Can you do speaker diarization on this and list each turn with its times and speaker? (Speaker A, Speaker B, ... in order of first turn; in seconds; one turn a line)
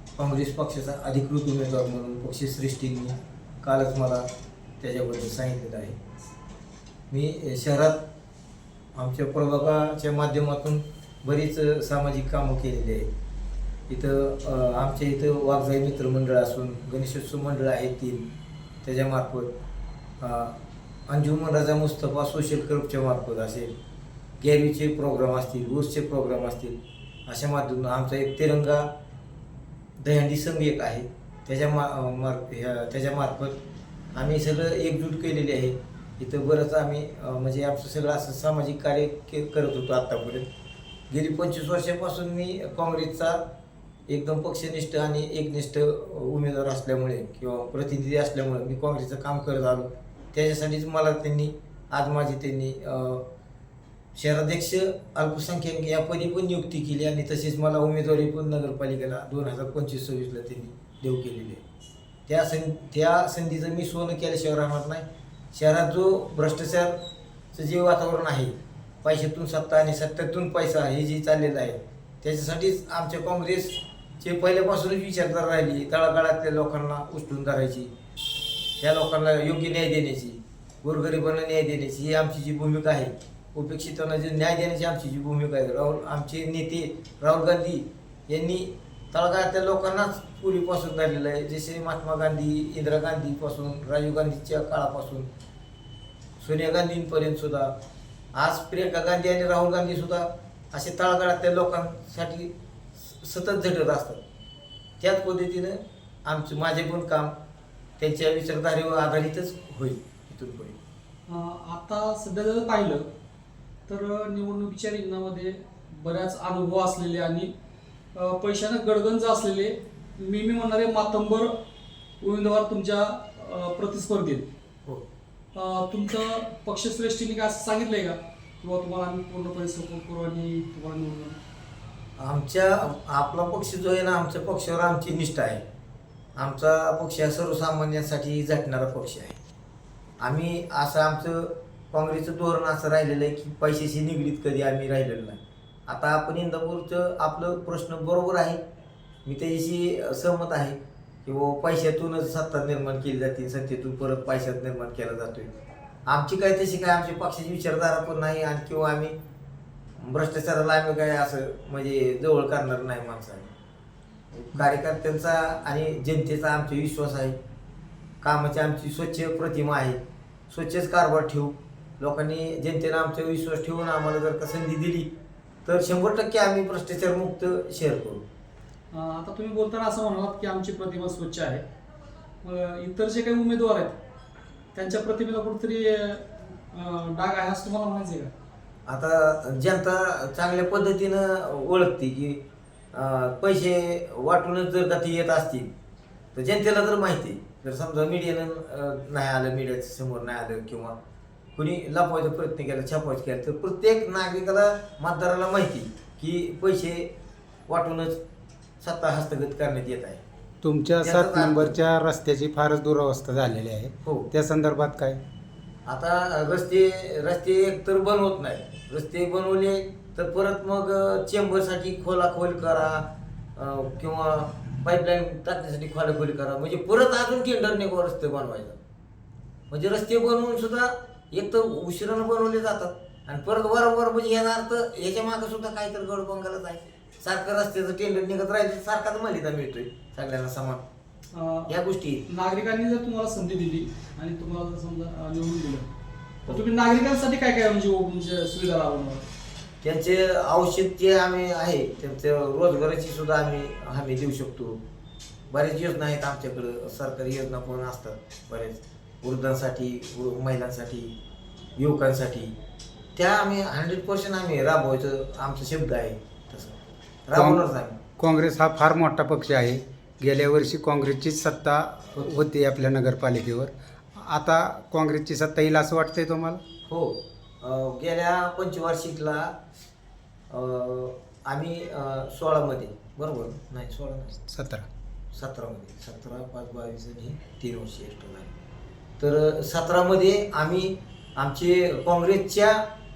Speaker A: 0.1-4.2
Speaker A: 4.8-6.0
Speaker A: 7.1-8.0
Speaker A: 8.9-13.1
Speaker A: 13.9-18.2
Speaker A: 18.8-19.5
Speaker A: 20.2-20.6
Speaker A: 21.1-23.7
Speaker A: 24.4-26.8
Speaker A: 27.3-28.9
Speaker A: 30.0-33.5
Speaker A: 34.1-40.5
Speaker A: 41.1-43.4
Speaker A: 44.1-53.2
Speaker A: 54.1-61.6
Speaker A: 62.3-67.0
Speaker A: 67.5-77.9
Speaker A: 78.8-95.3
Speaker A: 96.4-97.7
Speaker A: 98.3-104.2
Speaker A: 105.0-107.3
Speaker A: 108.0-110.8
Speaker B: 111.3-113.1
Speaker B: 113.9-117.5
Speaker B: 118.1-121.5
Speaker B: 122.2-124.5
Speaker B: 125.5-131.4
Speaker A: 132.2-135.6
Speaker A: 136.4-139.4
Speaker A: 140.2-148.6
Speaker A: 149.2-155.5
Speaker A: 156.1-159.1
Speaker A: 160.0-163.5
Speaker A: 164.3-167.4
Speaker A: 168.2-175.1
Speaker A: 175.6-178.2
Speaker B: 178.9-181.6
Speaker B: 182.4-184.0
Speaker B: 184.7-188.3
Speaker A: 188.9-192.4
Speaker A: 192.9-195.7
Speaker A: 196.3-200.9
Speaker A: 201.6-207.1
Speaker A: 207.7-208.2
Speaker A: 208.8-210.2
Speaker C: 210.6-215.2
Speaker A: 211.0-211.8
Speaker A: 215.8-223.0
Speaker A: 223.6-228.8
Speaker A: 229.7-240.8
Speaker B: 241.3-241.7
Speaker A: 241.7-242.2
Speaker B: 242.3-245.9
Speaker B: 246.5-249.3
Speaker A: 249.8-254.8
Speaker A: 255.5-261.1
Speaker A: 261.8-262.5
Speaker A: 263.1-268.0
Speaker C: 267.3-267.6
Speaker C: 268.2-276.6
Speaker A: 276.9-279.6
Speaker A: 280.5-284.4
Speaker C: 284.5-284.9
Speaker A: 285.3-288.5
Speaker A: 289.2-292.8